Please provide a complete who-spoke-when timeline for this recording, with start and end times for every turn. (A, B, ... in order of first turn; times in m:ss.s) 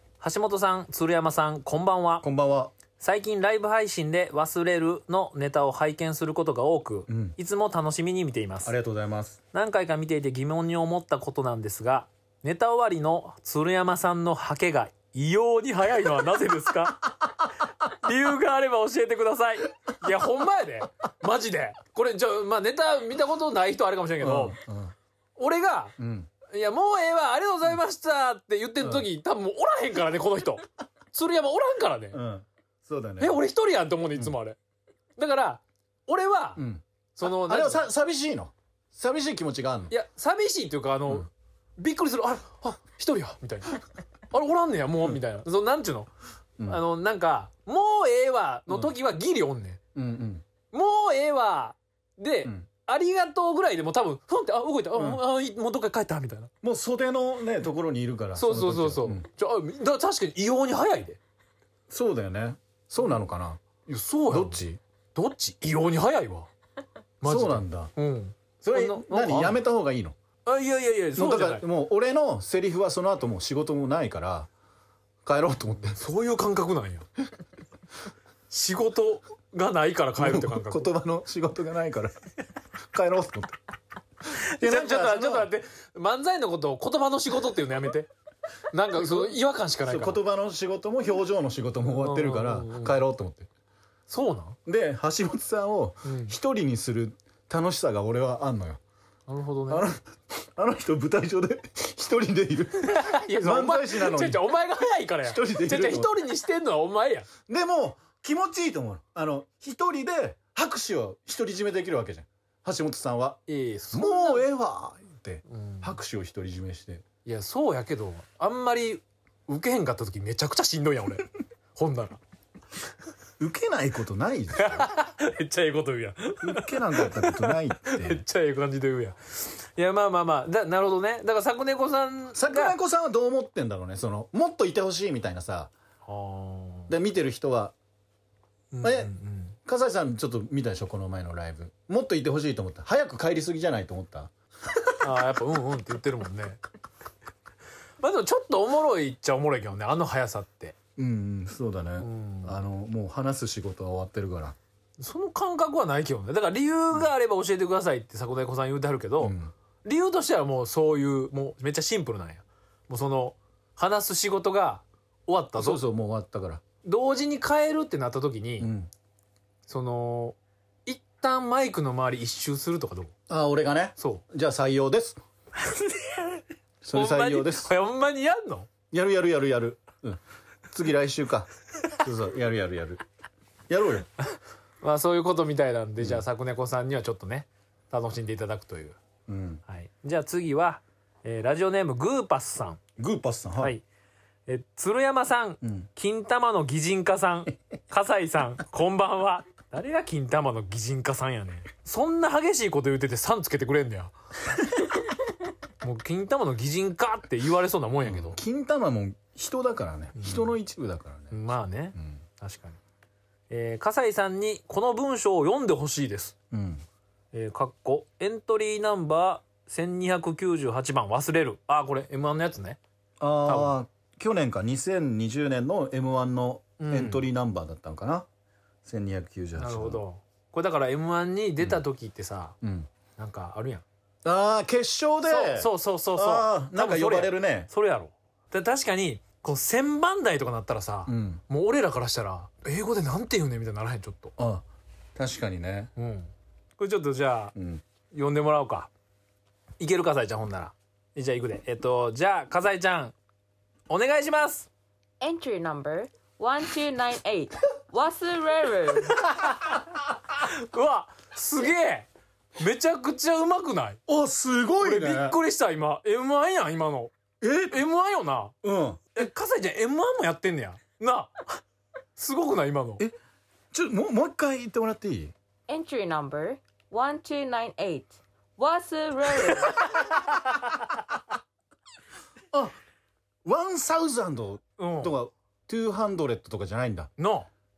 0:00.2-0:02.3 A
0:02.2-0:02.7 B
0:03.0-0:08.7 A
0:07.1-0:07.4 B
0:08.6-0:09.4 B
0:09.5-0:17.3 A
0:17.8-0:24.6 A
0:24.2-0:24.9 B
0:25.4-0:32.2 A
0:26.0-0:26.3 B
0:28.8-0:29.1 B
0:32.1-0:33.4 B
0:33.2-0:34.6 A
0:35.2-0:36.6 A
0:36.6-0:39.9 B
0:37.2-0:37.9 A
0:39.9-0:46.1 A
0:46.7-0:49.8 A
0:50.0-0:50.4 B
0:50.7-0:56.5 A
0:55.0-0:55.2 B
0:56.6-0:59.2 B
0:58.4-1:01.2 A
1:01.9-1:03.6 B
1:02.9-1:03.2 A
1:03.9-1:04.6 A
1:04.3-1:04.8 B
1:05.2-1:06.5 A
1:07.2-1:09.6 A
1:07.2-1:07.9 B
1:08.6-1:10.2 B
1:10.4-1:11.6 A
1:11.2-1:14.5 B
1:15.2-1:16.0 B
1:15.9-1:17.1 A
1:18.5-1:20.9 A
1:20.2-1:22.2 B
1:22.9-1:23.6 B
1:24.3-1:25.5 B
1:24.4-1:28.1 A
1:28.7-1:30.2 A
1:29.0-1:33.5 B
1:31.9-1:33.0 A
1:34.1-1:34.6 A
1:34.7-1:38.8 B
1:36.0-1:36.4 A
1:39.3-1:39.9 A
1:39.7-1:44.4 B
1:42.8-1:47.3 A
1:45.2-1:46.2 B
1:47.5-1:57.0 B
1:53.5-1:54.5 A
1:55.5-1:56.0 A
1:57.2-2:02.2 A
2:03.4-2:04.9 B
2:04.6-2:12.8 A
2:06.4-2:08.2 B
2:12.3-2:15.7 B
2:16.0-2:16.9 A
2:16.9-2:17.8 B
2:18.7-2:19.6 A
2:18.8-2:19.1 B
2:19.6-2:24.3 B
2:25.0-2:26.6 A
2:28.0-2:30.8 A
2:31.0-2:34.6 B
2:32.0-2:32.6 A
2:35.0-2:45.8 A
2:39.2-2:39.5 B
2:45.6-2:46.6 B
2:46.8-2:48.7 A
2:48.6-2:48.9 B
2:49.7-2:53.1 A
2:53.3-2:55.2 B
2:55.6-2:56.4 A
2:56.8-2:57.7 B
2:56.9-2:58.7 A
2:58.9-3:03.0 B
3:03.7-3:04.1 B
3:04.8-3:09.0 A
3:09.3-3:09.6 B
3:09.7-3:12.8 A
3:13.0-3:13.8 B
3:14.5-3:24.1 A
3:15.6-3:15.9 B
3:25.8-3:28.4 A
3:28.0-3:31.4 B
3:30.2-3:30.5 A
3:31.3-3:32.8 A
3:32.0-3:32.2 B
3:33.5-3:36.4 A
3:36.5-3:36.8 B
3:37.3-3:42.8 A
3:43.2-3:48.3 B
3:43.4-3:43.8 A
3:46.8-3:47.3 A
3:48.8-3:50.0 B
3:49.6-3:52.6 A
3:52.6-3:52.9 B
3:53.2-3:53.8 A
3:54.2-3:57.7 B
3:55.3-4:04.3 A
4:01.1-4:01.4 B
4:04.4-4:05.9 B
4:06.0-4:07.5 A
4:07.6-4:07.8 B
4:08.1-4:08.9 A
4:09.8-4:13.2 A
4:13.9-4:14.7 A
4:15.2-4:19.3 C
4:19.2-4:19.8 A
4:20.4-4:24.0 A
4:24.1-4:25.4 B
4:24.8-4:27.1 A
4:27.4-4:27.8 B
4:27.7-4:28.6 A
4:28.6-4:29.1 B
4:29.2-4:31.6 A
4:32.2-4:33.0 A
4:33.7-4:35.3 B
4:35.7-4:40.0 C
4:43.4-4:47.1 B
4:44.8-4:45.2 A
4:47.2-4:47.5 A